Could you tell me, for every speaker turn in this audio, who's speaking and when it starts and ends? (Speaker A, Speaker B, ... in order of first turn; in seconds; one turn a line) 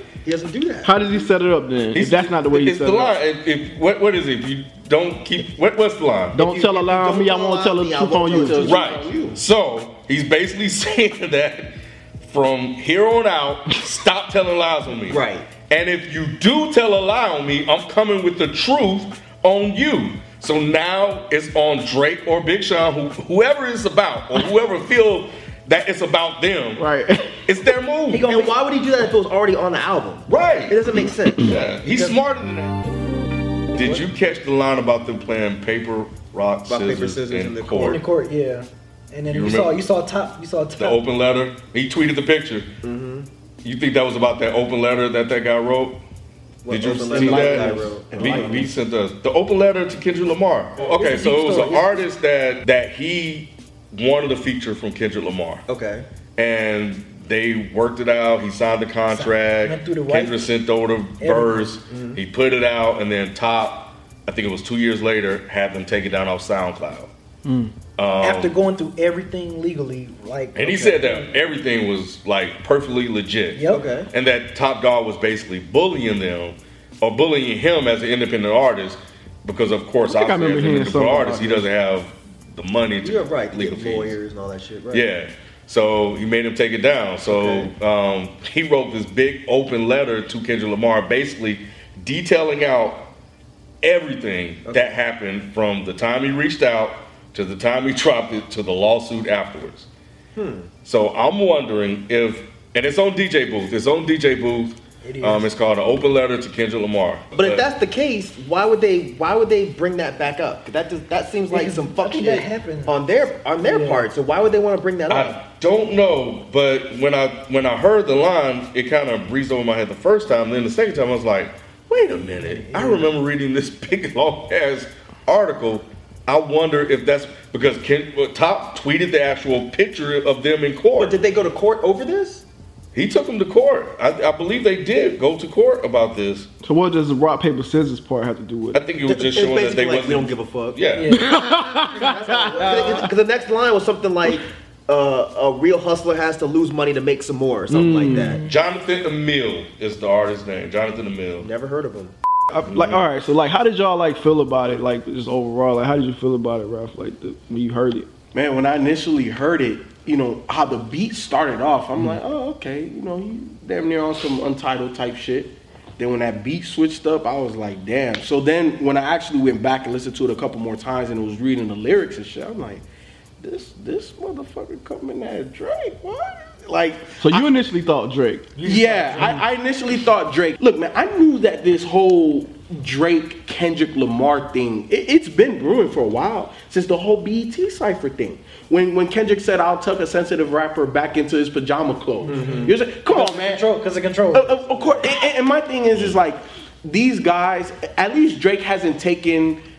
Speaker A: 0.2-1.2
Speaker B: 0.8-3.2
Speaker C: 1.9-6.4
Speaker B: 6.3-8.7
Speaker A: 6.3-9.3
Speaker D: 8.3-9.4
Speaker C: 8.6-26.9
Speaker A: 15.1-15.5
Speaker B: 26.8-27.4
Speaker C: 27.4-28.3
Speaker E: 28.1-28.6
Speaker A: 28.2-31.5
Speaker C: 30.3-30.8
Speaker C: 31.4-32.9
Speaker E: 31.9-32.2
Speaker C: 33.7-38.0
Speaker E: 33.8-34.0
Speaker A: 36.7-38.0
Speaker E: 37.8-41.0
Speaker C: 39.3-39.8
Speaker C: 40.8-42.7
Speaker A: 42.8-43.3
Speaker C: 43.6-46.0
Speaker A: 46.6-48.6
Speaker C: 46.7-55.6
Speaker D: 47.1-48.7
Speaker E: 50.9-52.1
Speaker A: 55.7-56.0
Speaker C: 56.4-67.1
Speaker E: 59.1-60.5
Speaker E: 61.2-61.8
Speaker A: 61.9-62.2
Speaker B: 67.5-67.7
Speaker C: 68.0-68.5
Speaker E: 68.2-71.3
Speaker C: 70.5-84.1
Speaker E: 73.5-73.8
Speaker A: 73.7-74.1
Speaker B: 80.0-81.7
Speaker A: 83.0-85.0
Speaker C: 84.9-93.1
Speaker A: 87.3-87.7
Speaker C: 93.8-99.9
Speaker A: 100.3-100.7
Speaker C: 100.8-107.7
Speaker E: 105.0-105.5
Speaker A: 107.3-115.4
Speaker E: 111.5-113.0
Speaker E: 113.6-114.1
Speaker C: 115.1-131.2
Speaker E: 122.3-123.1
Speaker A: 131.0-132.4
Speaker C: 132.9-136.5
Speaker B: 136.6-138.8
Speaker C: 138.7-141.2
Speaker A: 139.1-140.8
Speaker E: 140.9-141.3
Speaker B: 141.1-143.1
Speaker A: 141.9-148.4
Speaker E: 142.5-143.1
Speaker B: 147.7-148.4
Speaker E: 148.2-148.5
Speaker C: 148.4-151.5
Speaker A: 151.4-152.1
Speaker B: 152.5-158.1
Speaker C: 152.7-153.0
Speaker D: 158.3-172.8
Speaker D: 173.4-177.4
Speaker B: 177.2-178.6
Speaker E: 178.6-179.4
Speaker D: 178.6-193.6
Speaker E: 192.2-195.1
Speaker A: 192.4-192.7
Speaker D: 194.3-199.6